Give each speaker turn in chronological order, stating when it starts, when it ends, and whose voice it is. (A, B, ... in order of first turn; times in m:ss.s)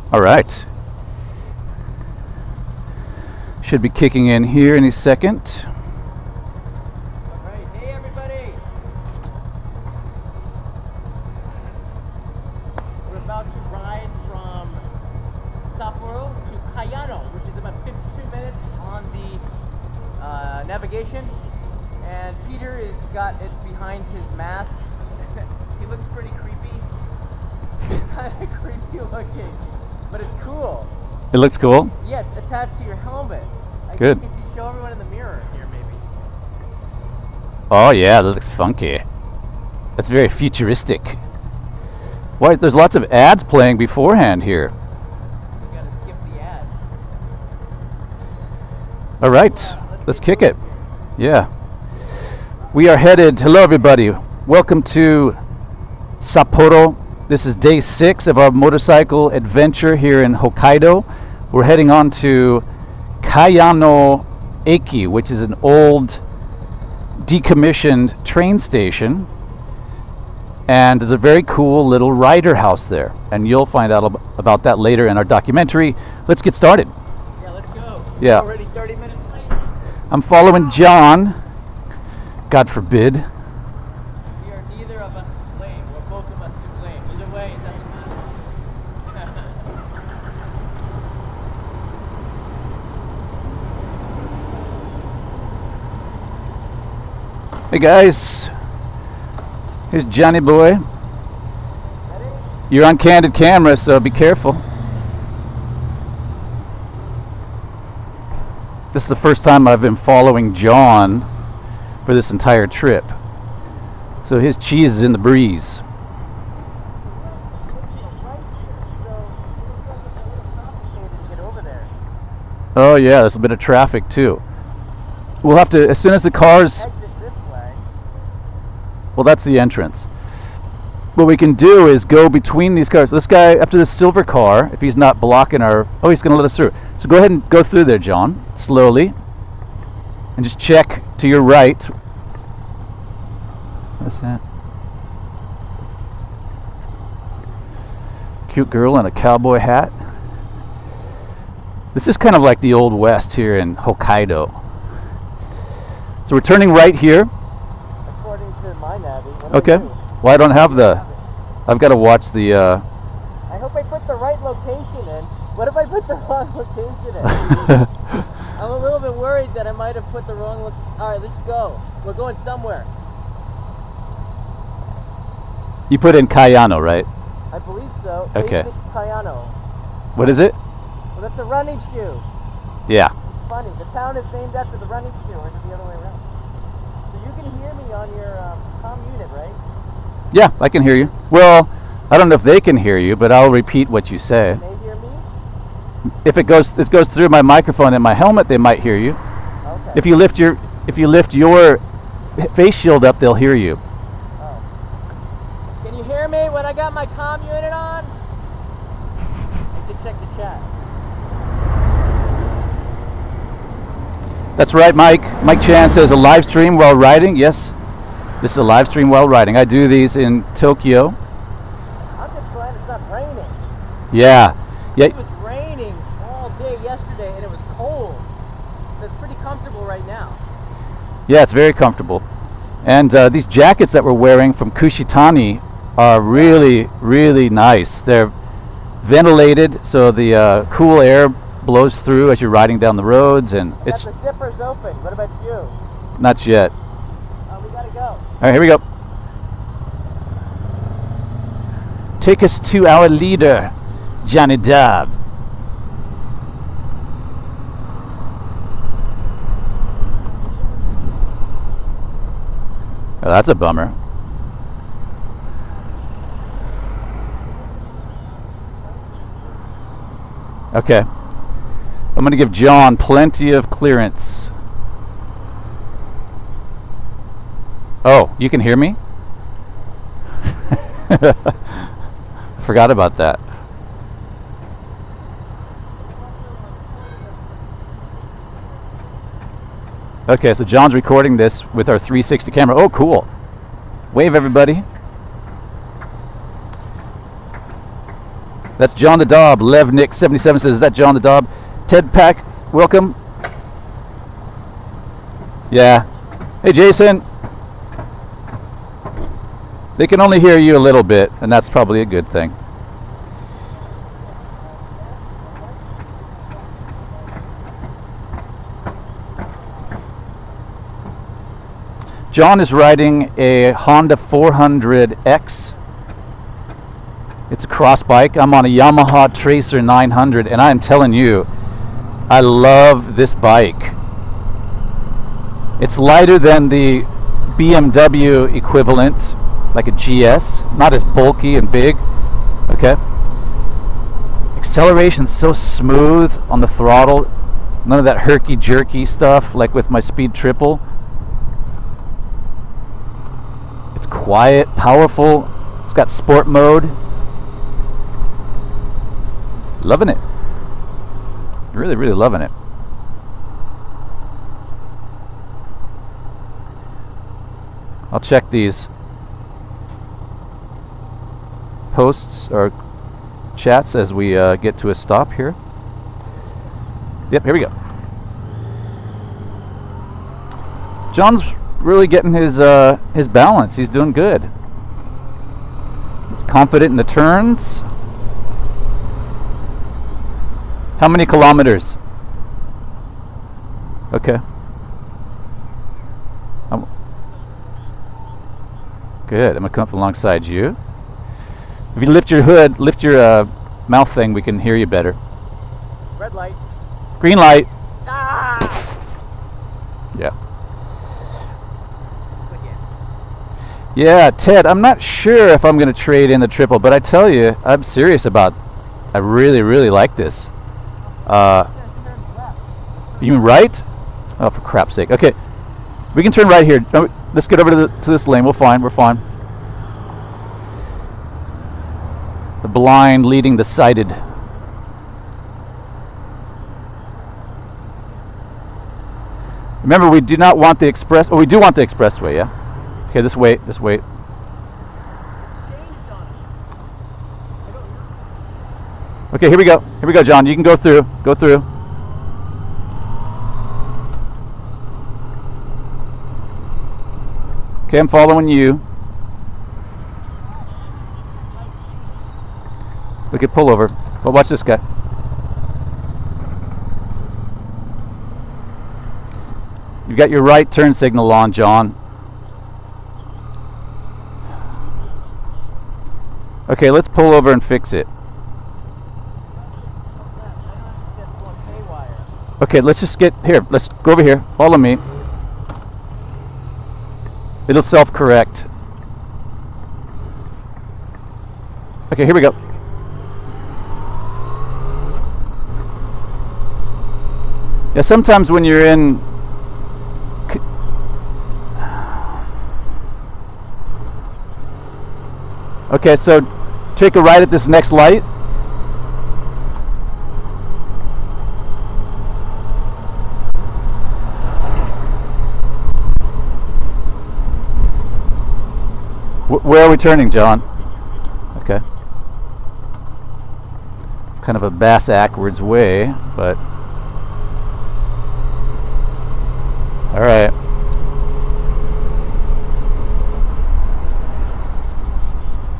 0:00.1-0:00.7 A
0:03.6-0:05.7 A
0:07.3-0:08.6 B
0:13.0-0:14.8 B
0:15.7-0:19.4 B
0:20.2-0:21.3 B
0:22.0-0:26.8 B
0:27.8-0:30.9 B
0:31.3-0:31.9 A
0:32.0-0:36.0 B
0:37.7-0:39.0 A
0:40.0-0:41.2 A
0:42.4-0:44.7 A
0:45.6-0:46.8 B
0:49.2-0:50.5 A
0:49.3-0:50.8 B
0:51.2-0:51.5 A
0:52.7-0:55.4 A
0:56.2-1:02.6 A
1:03.2-1:06.2 A
1:07.2-1:09.3 A
1:10.7-1:16.9 A
1:17.4-1:19.6 B
1:18.2-1:18.4 A
1:20.1-1:21.3 A
1:22.5-1:23.2 A
1:24.4-1:28.3 B
1:29.1-1:29.6 B
1:37.7-1:38.5 A
1:39.9-1:40.8 A
1:42.1-1:42.5 B
1:42.7-1:44.6 A
1:48.9-1:51.2 A
1:52.0-1:53.1 A
1:54.2-1:55.8 A
1:57.1-2:01.9 B
2:02.7-2:04.4 A
2:05.4-2:06.8 A
2:06.7-2:07.8 B
2:09.2-2:10.1 A
2:11.2-2:19.1 A
2:20.4-2:21.9 A
2:24.0-2:24.4 A
2:28.5-2:29.9 A
2:31.9-2:34.6 A
2:36.2-2:37.3 A
2:38.1-2:41.2 B
2:39.5-2:41.0 A
2:41.7-2:42.8 A
2:43.5-2:47.9 B
2:48.5-2:52.9 B
2:55.9-2:57.1 A
2:57.5-2:59.6 B
2:58.3-2:58.7 A
3:00.1-3:00.6 A
3:01.1-3:02.2 B
3:02.9-3:03.1 A
3:03.3-3:06.2 B
3:07.1-3:09.6 B
3:10.3-3:14.6 A
3:14.5-3:15.2 B
3:16.2-3:19.2 A
3:19.6-3:20.1 B
3:19.9-3:21.8 A
3:22.4-3:23.8 A
3:24.4-3:24.6 B
3:25.8-3:28.1 B
3:29.7-3:30.7 B
3:34.6-3:37.7 A
3:38.4-3:41.2 A
3:42.2-3:43.6 B
3:44.1-3:45.1 A
3:45.0-3:48.3 B
3:49.0-3:50.4 B
3:51.3-3:52.2 A
3:52.8-3:58.3 A
3:59.0-4:04.0 A
4:03.8-4:05.8 B
4:06.2-4:06.7 A
4:07.5-4:08.2 B
4:08.4-4:08.8 A
4:12.2-4:15.1 A
4:23.2-4:24.0 A
4:28.8-4:29.6 B
4:30.7-4:31.0 A
4:32.2-4:34.5 A
4:38.0-4:39.0 A
4:40.9-4:41.7 A
4:42.6-4:43.4 A
4:46.0-4:48.8 B
4:50.3-4:53.3 A
4:54.1-4:54.8 A
4:58.8-5:03.2 A
5:05.7-5:06.0 A
5:06.6-5:07.2 A
5:10.0-5:12.5 A
5:14.1-5:17.4 B
5:22.3-5:25.7 A
5:27.5-5:31.5 A
5:32.3-5:34.0 A
5:35.8-5:42.0 A
5:42.7-5:43.0 A
5:44.6-5:47.3 A
5:47.8-5:50.8 A
5:53.9-5:57.0 A
5:59.8-6:00.2 A
6:01.7-6:02.5 A
6:08.1-6:08.9 A
6:11.9-6:12.7 A
6:13.6-6:15.6 A
6:17.3-6:17.7 A
6:21.1-6:24.5 A
6:26.3-6:27.8 A
6:31.0-6:32.0 A
6:34.1-6:34.4 A
6:39.3-6:40.8 A
6:41.9-6:45.2 A
6:46.2-6:46.6 B
6:47.2-6:47.7 A
6:48.0-6:49.0 B
6:52.4-6:52.8 B
6:53.9-6:58.6 A
6:59.1-7:00.5 A
7:01.2-7:02.6 B
7:01.2-7:01.7 A
7:03.2-7:03.8 A
7:04.4-7:05.4 A
7:06.1-7:09.2 A
7:12.6-7:14.2 A
7:19.8-7:22.5 A
7:23.1-7:24.0 A
7:25.4-7:26.5 B
7:27.6-7:28.2 B
7:29.3-7:31.6 A
7:37.9-7:38.8 A
7:41.0-7:41.9 B
7:43.3-7:44.8 A
7:50.0-7:52.0 A
7:56.7-7:58.1 A
7:59.5-8:02.3 B
8:02.6-8:05.0 A
8:07.7-8:08.7 A
8:12.1-8:12.6 A
8:17.9-8:19.2 A
8:21.8-8:22.2 A
8:25.9-8:28.2 A
8:39.5-8:40.6 A
8:41.5-8:41.8 A
8:44.4-8:46.6 A
8:50.1-8:50.5 A